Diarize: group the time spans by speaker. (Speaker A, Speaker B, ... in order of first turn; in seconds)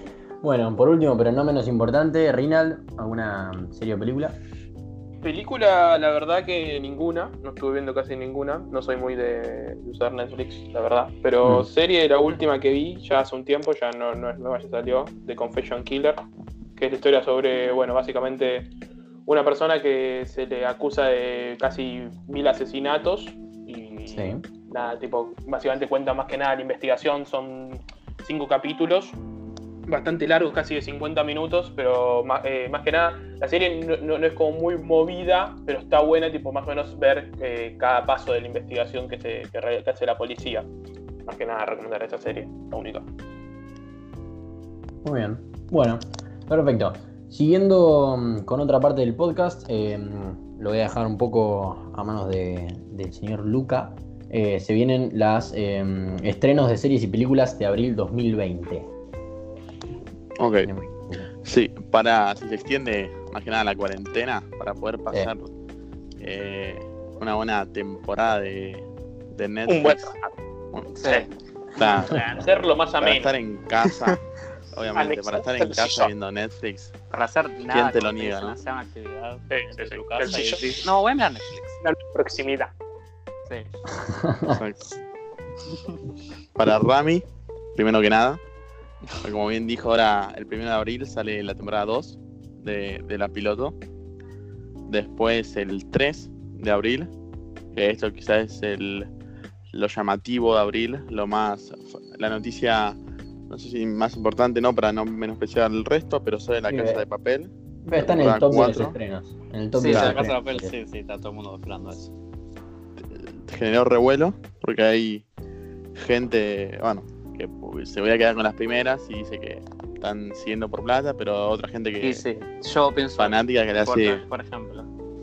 Speaker A: 0.4-4.4, 11.4-11.7, 24.1-24.4, 45.0-58.9, 60.6-61.3, 83.9-84.6, 106.7-107.0, 107.8-110.7
Speaker B: 5.2-16.2, 16.8-18.7, 19.2-29.2, 29.9-40.7, 41.3-43.0, 72.1-73.3
Speaker C: 60.4-60.7, 61.4-65.5, 66.2-70.1, 71.8-72.4, 73.0-74.2, 74.7-76.9, 77.7-78.6, 84.5-84.9, 86.5-88.4, 89.2-93.8, 94.9-97.1, 97.7-99.1, 99.7-103.0, 103.5-108.9, 113.0-115.2, 116.0-122.2, 123.2-124.2
Speaker D: 69.7-70.3, 74.9-76.1, 79.5-80.9, 81.8-82.7
Speaker E: 70.9-71.3, 77.1-81.8, 83.5-83.7, 109.8-112.1, 122.0-124.9